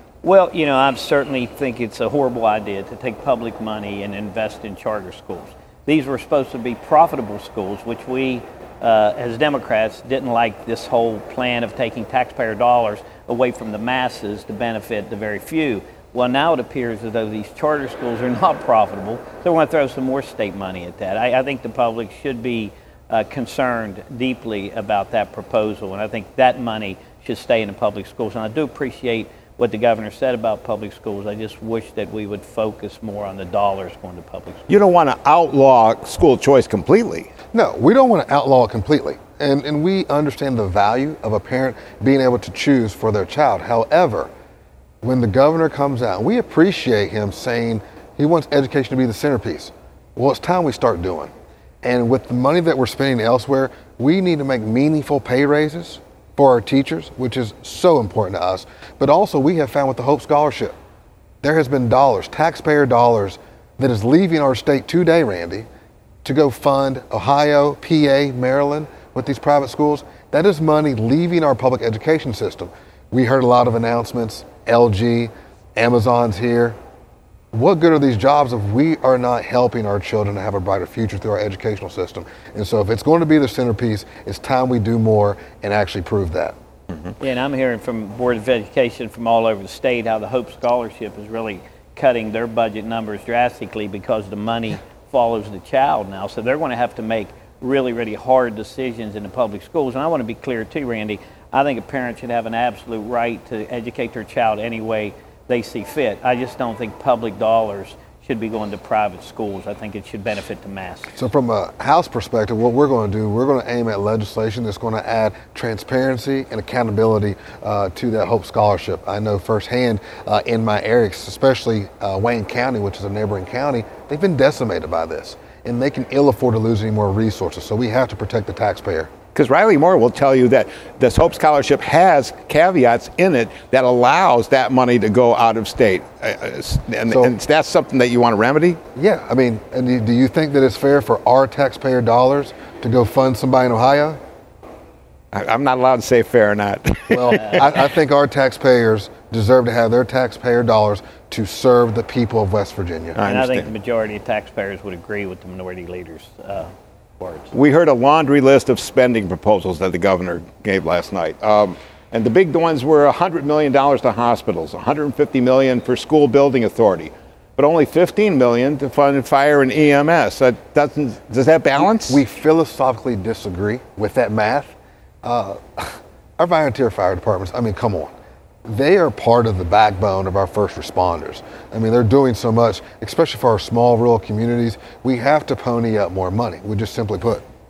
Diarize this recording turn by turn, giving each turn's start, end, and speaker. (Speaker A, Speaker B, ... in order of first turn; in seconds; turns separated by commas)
Speaker A: 0.2-34.6, Speaker B: 34.7-37.3, Speaker C: 37.5-44.3, Speaker C: 45.0-51.3, Speaker C: 51.8-60.8, Speaker C: 61.4-65.7, Speaker C: 66.2-76.8, Speaker C: 77.5-86.6, Speaker A: 87.2-111.1, Speaker C: 111.2-129.1, Speaker B: 129.3-138.8, Speaker C: 139.0-144.2, Speaker B: 145.3-147.6, Speaker C: 147.1-153.2, Speaker B: 153.2-153.7, Speaker A: 153.2-157.5, Speaker B: 157.5-172.2, Speaker C: 172.0-178.1, Speaker C: 178.7-187.4